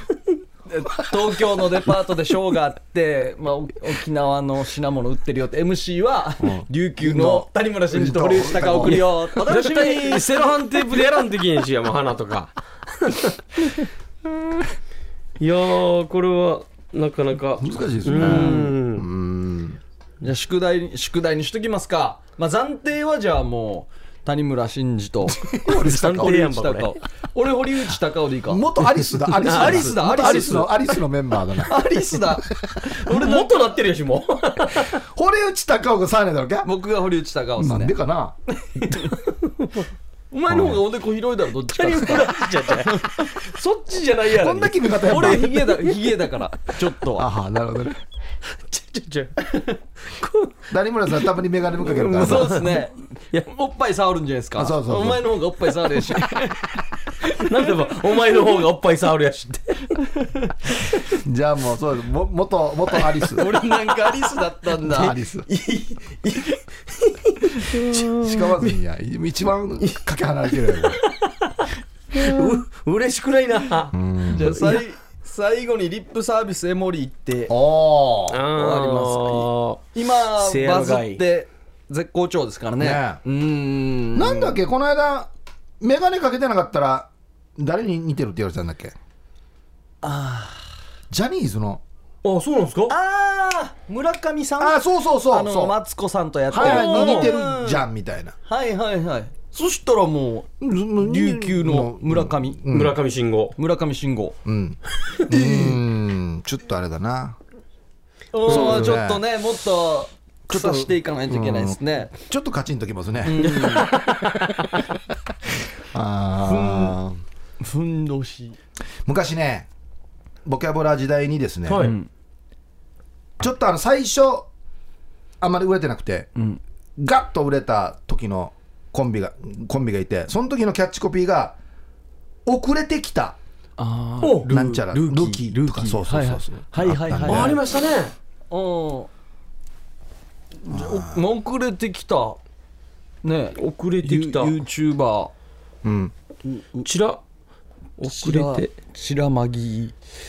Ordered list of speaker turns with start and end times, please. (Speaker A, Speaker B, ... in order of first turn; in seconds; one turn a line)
Speaker A: 0.7-10.5
Speaker B: 6.4-9.1
Speaker C: 8.8-13.4
Speaker C: 15.4-19.1
Speaker B: 17.6-19.8
Speaker A: 18.2-18.7
Speaker A: 20.2-25.5
Speaker B: 25.3-26.5
Speaker C: 25.7-27.0
Speaker A: 26.2-28.7
Speaker B: 28.5-33.0
Speaker C: 29.3-30.6
Speaker A: 29.4-30.7
Speaker A: 31.6-32.5
Speaker C: 33.0-35.0
Speaker A: 33.1-33.6
Speaker B: 34.9-36.7
Speaker A: 36.6-37.9
Speaker B: 37.6-38.4
Speaker A: 38.6-39.2
Speaker A: 40.3-43.5
Speaker B: 40.5-40.8
Speaker C: 41.8-45.9
Speaker B: 44.3-45.6
Speaker A: 45.0-47.3
Speaker B: 47.1-48.0
Speaker C: 48.7-50.5
Speaker B: 50.7-52.6
Speaker C: 51.9-53.5
Speaker A: 52.1-56.5
Speaker B: 54.6-55.2
Speaker C: 56.2-56.5
Speaker C: 57.3-61.0
Speaker B: 61.2-63.5
Speaker A: 63.3-65.2
Speaker B: 64.9-65.5
Speaker C: 65.5-68.2
Speaker A: 67.7-68.0
Speaker B: 68.1-71.0
Speaker C: 70.6-73.9
Speaker B: 73.9-74.8
Speaker A: 74.3-77.5
Speaker C: 74.5-74.8
Speaker B: 77.5-78.4
Speaker C: 78.3-81.2
Speaker A: 78.5-84.6
Speaker B: 82.8-83.2
Speaker B: 84.2-85.3
Speaker B: 85.8-89.0
Speaker A: 90.0-90.6
Speaker B: 91.1-91.8
Speaker C: 92.2-92.9
Speaker A: 92.9-97.8
Speaker B: 94.6-95.8
Speaker B: 96.5-98.3
Speaker C: 96.5-97.4
Speaker A: 98.5-102.6
Speaker B: 100.6-103.0
Speaker C: 102.7-103.5
Speaker A: 103.6-104.4
Speaker B: 104.5-107.4
Speaker A: 105.3-105.8
Speaker A: 108.3-112.1
Speaker C: 108.5-109.0
Speaker B: 108.5-109.2
Speaker B: 110.5-114.0
Speaker A: 113.2-113.9
Speaker C: 113.4-114.7
Speaker B: 115.9-117.2
Speaker A: 116.5-117.0
Speaker A: 117.6-118.6
Speaker B: 119.1-119.7
Speaker B: 120.5-121.9
Speaker C: 121.7-122.0
Speaker A: 121.8-122.1
Speaker B: 123.4-124.5
Speaker B: 125.4-126.3
Speaker B: 127.0-131.6
Speaker B: 132.5-133.4
Speaker A: 133.8-137.6
Speaker C: 134.2-134.5
Speaker B: 134.5-137.6
Speaker C: 137.3-138.1
Speaker A: 138.5-139.1
Speaker A: 140.6-142.4
Speaker B: 140.7-141.2
Speaker A: 143.2-145.3
Speaker C: 143.6-144.6
Speaker B: 145.8-146.1
Speaker A: 146.5-146.9
Speaker C: 146.8-147.2
Speaker C: 148.0-148.7
Speaker A: 148.0-150.0